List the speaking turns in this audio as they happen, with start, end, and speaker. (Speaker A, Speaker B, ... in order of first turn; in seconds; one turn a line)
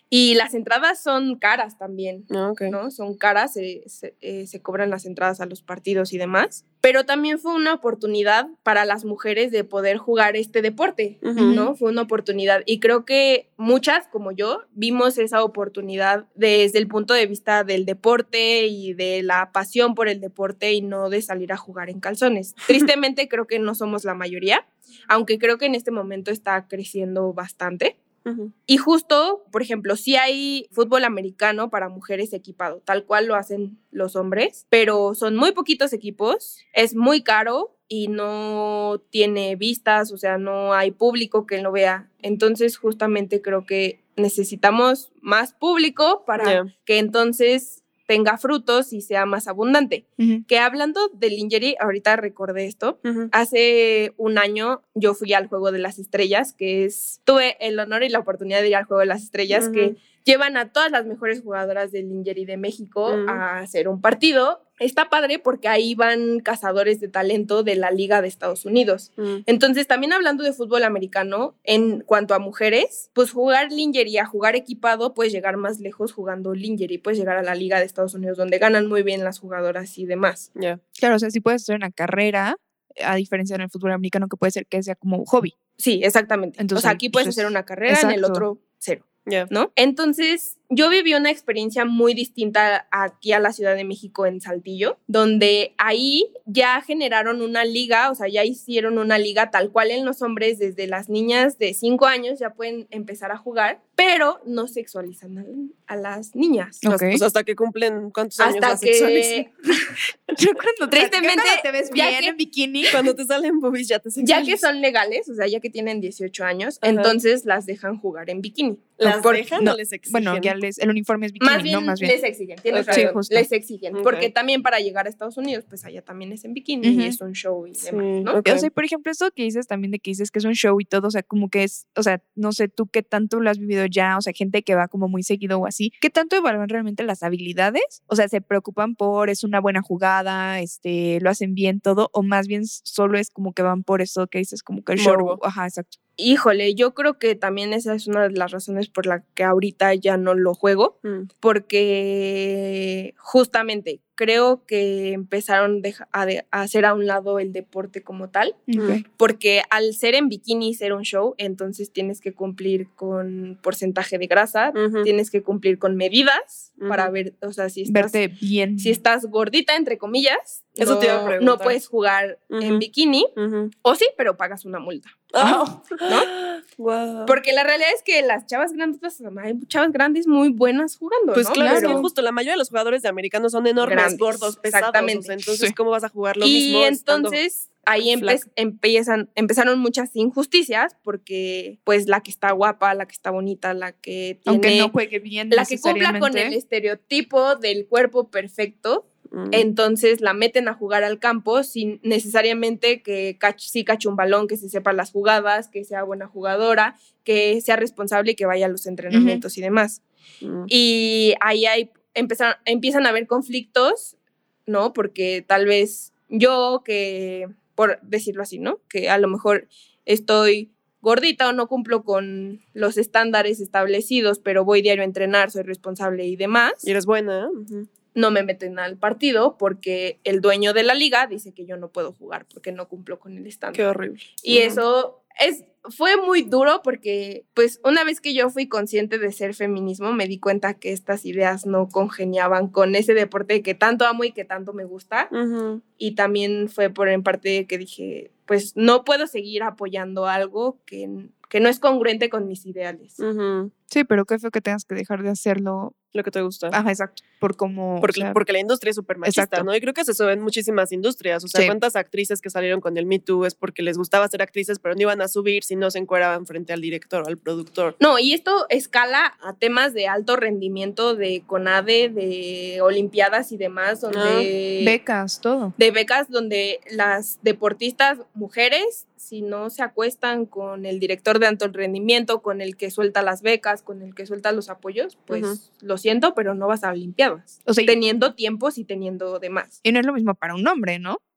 Speaker A: 0.1-28.0
Speaker B: 2.3-2.8
Speaker B: 11.2-11.6
Speaker C: 11.3-11.7
Speaker B: 28.2-28.5
Speaker A: 28.7-80.5
Speaker B: 46.4-46.7
Speaker B: 53.0-53.3
Speaker B: 59.5-59.9
Speaker B: 63.1-63.4
Speaker C: 81.0-85.5
Speaker A: 85.8-106.8
Speaker C: 86.6-88.4
Speaker C: 106.8-107.2
Speaker B: 106.8-109.5
Speaker A: 108.4-109.8
Speaker C: 110.3-112.9
Speaker A: 110.9-113.0
Speaker B: 112.9-114.6
Speaker A: 114.2-119.5
Speaker B: 116.8-117.2
Speaker B: 119.0-120.5
Speaker C: 119.6-122.2
Speaker A: 121.4-128.4
Speaker B: 122.7-124.3
Speaker C: 122.9-123.2
Speaker C: 126.8-127.2
Speaker B: 127.8-128.7
Speaker C: 128.4-145.9
Speaker B: 145.0-145.4
Speaker A: 146.2-168.2
Speaker C: 158.7-159.0
Speaker B: 164.7-165.1
Speaker B: 166.8-167.1
Speaker C: 167.8-169.0
Speaker A: 168.8-173.3
Speaker B: 170.8-171.8
Speaker B: 172.5-172.8
Speaker B: 173.3-173.7
Speaker A: 173.8-175.3
Speaker B: 175.3-177.4
Speaker C: 175.4-175.8
Speaker A: 177.2-182.1
Speaker B: 181.3-187.4
Speaker C: 181.5-182.1
Speaker A: 183.8-185.3
Speaker C: 185.5-185.7
Speaker A: 186.4-194.9
Speaker B: 188.1-188.4
Speaker C: 194.5-196.5
Speaker A: 195.5-210.0
Speaker B: 199.3-199.7
Speaker C: 209.1-209.4
Speaker B: 210.4-210.7
Speaker A: 210.7-214.2
Speaker A: 214.7-226.9
Speaker B: 226.8-227.9
Speaker A: 228.1-233.8
Speaker B: 233.7-234.8
Speaker A: 234.4-245.3
Speaker B: 245.3-245.8
Speaker A: 246.0-253.2
Speaker B: 253.2-253.7
Speaker C: 253.9-255.9
Speaker B: 256.1-256.8
Speaker C: 256.7-258.4
Speaker B: 258.0-267.9
Speaker C: 259.2-259.7
Speaker A: 268.0-275.0
Speaker B: 274.1-274.5
Speaker C: 274.8-275.7
Speaker A: 275.8-289.8
Speaker B: 285.3-285.6
Speaker C: 287.7-287.9
Speaker C: 289.8-291.2